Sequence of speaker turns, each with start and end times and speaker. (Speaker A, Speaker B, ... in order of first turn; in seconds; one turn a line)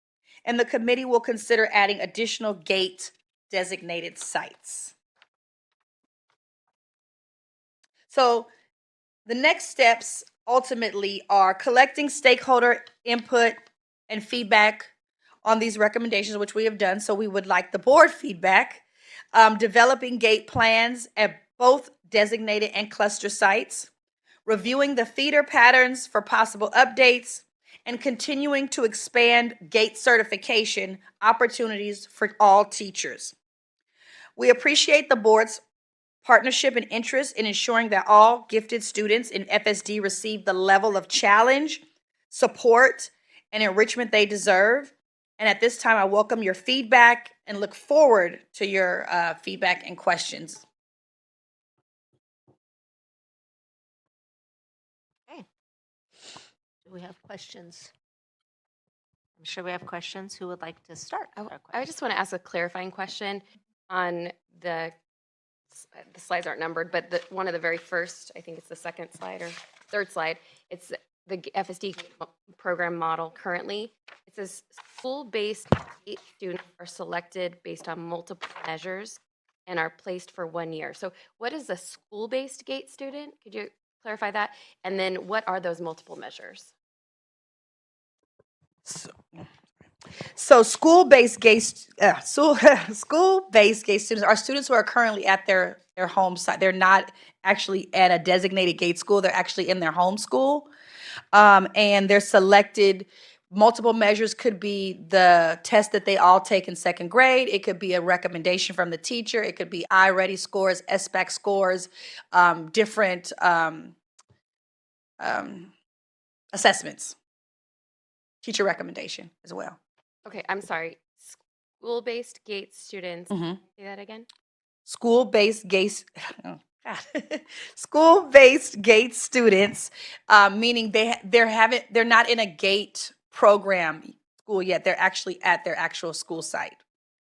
Speaker A: 0.5-5.0
Speaker A: 8.1-8.5
Speaker A: 9.3-13.6
Speaker A: 14.1-14.9
Speaker A: 15.4-23.9
Speaker A: 24.4-33.4
Speaker A: 34.4-35.6
Speaker A: 36.2-50.6
Speaker B: 56.8-57.9
Speaker B: 59.4-61.8
Speaker C: 61.4-64.9
Speaker C: 65.7-86.7
Speaker A: 88.8-89.5
Speaker A: 90.3-100.7
Speaker A: 101.3-114.0
Speaker A: 115.2-115.7
Speaker A: 116.5-117.1
Speaker A: 118.4-119.8
Speaker C: 120.2-124.3
Speaker A: 123.3-123.6
Speaker A: 124.9-136.8